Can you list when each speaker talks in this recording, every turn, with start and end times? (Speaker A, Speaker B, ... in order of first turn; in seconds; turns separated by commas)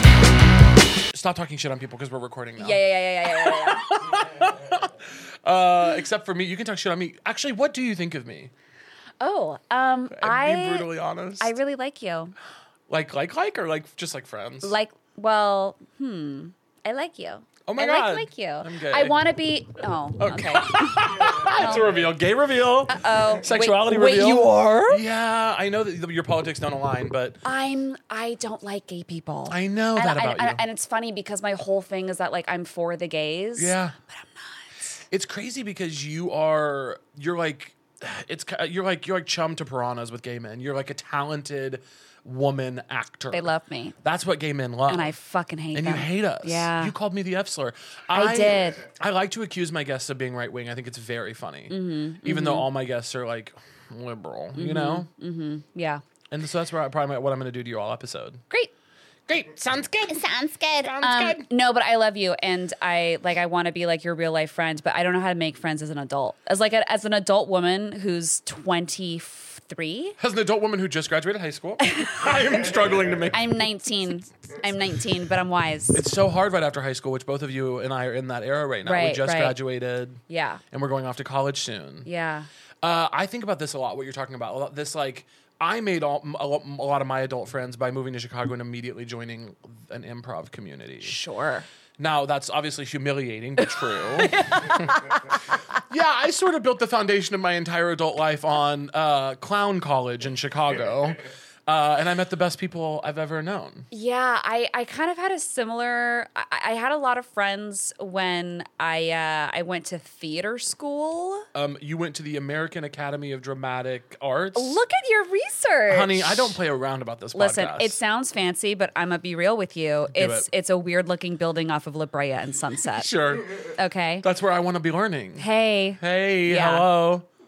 Speaker A: 1.1-8.5, Speaker B: 2.6-3.9, Speaker B: 9.2-12.3, Speaker A: 10.1-11.5, Speaker A: 12.9-14.8, Speaker B: 14.6-21.9, Speaker A: 17.7-19.2, Speaker A: 20.2-27.4, Speaker B: 22.9-25.0, Speaker B: 27.4-35.0, Speaker A: 29.5-30.6, Speaker A: 33.6-34.0, Speaker A: 35.1-43.5, Speaker B: 43.3-44.0, Speaker A: 44.0-45.1, Speaker B: 44.9-47.0, Speaker A: 45.7-55.1, Speaker B: 48.1-48.8, Speaker B: 51.7-52.7, Speaker B: 54.5-56.0, Speaker A: 56.3-58.4, Speaker A: 59.3-61.5, Speaker B: 61.0-70.2, Speaker A: 70.2-73.4, Speaker B: 71.8-72.2, Speaker B: 73.3-76.1, Speaker A: 75.9-82.1, Speaker B: 78.8-79.6, Speaker B: 80.3-80.6, Speaker B: 82.0-82.5, Speaker A: 82.8-91.2, Speaker B: 91.0-91.7, Speaker A: 92.0-95.0, Speaker B: 94.2-95.8, Speaker A: 95.8-103.9, Speaker B: 103.9-111.5, Speaker A: 111.5-114.8, Speaker B: 114.5-116.6, Speaker A: 115.9-118.0, Speaker B: 117.3-123.1, Speaker A: 120.1-120.5, Speaker A: 122.9-123.7, Speaker B: 123.8-124.3, Speaker A: 124.2-127.3, Speaker B: 125.4-126.9